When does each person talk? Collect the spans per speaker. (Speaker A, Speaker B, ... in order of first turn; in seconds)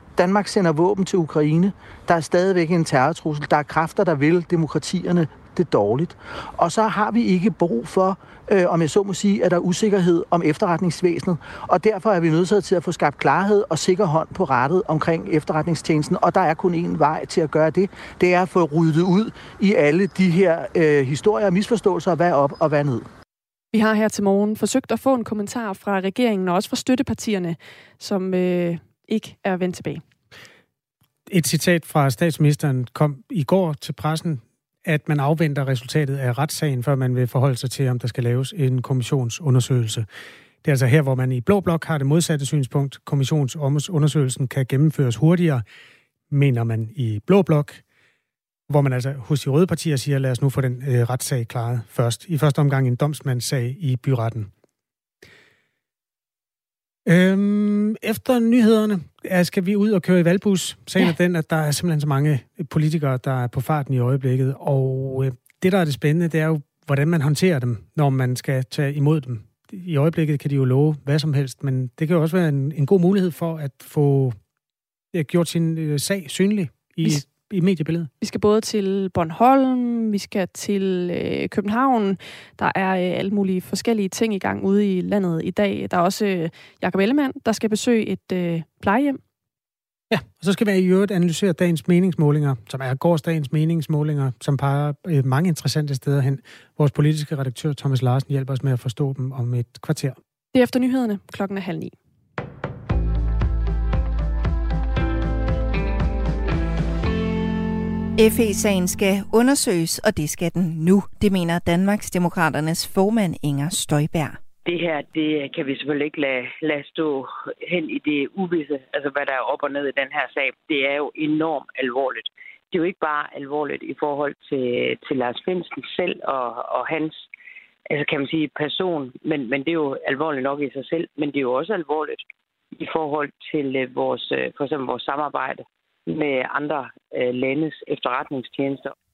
Speaker A: 0.2-23.1
Speaker B: 23.7-30.0, 78.2-89.2, 100.5-101.9
Speaker C: 31.3-40.1, 40.6-45.6, 46.3-47.8, 48.7-54.5, 57.0-74.4, 75.1-78.1, 90.1-100.2
Speaker D: 108.2-114.4
Speaker E: 114.7-127.3, 127.9-132.2, 132.8-138.9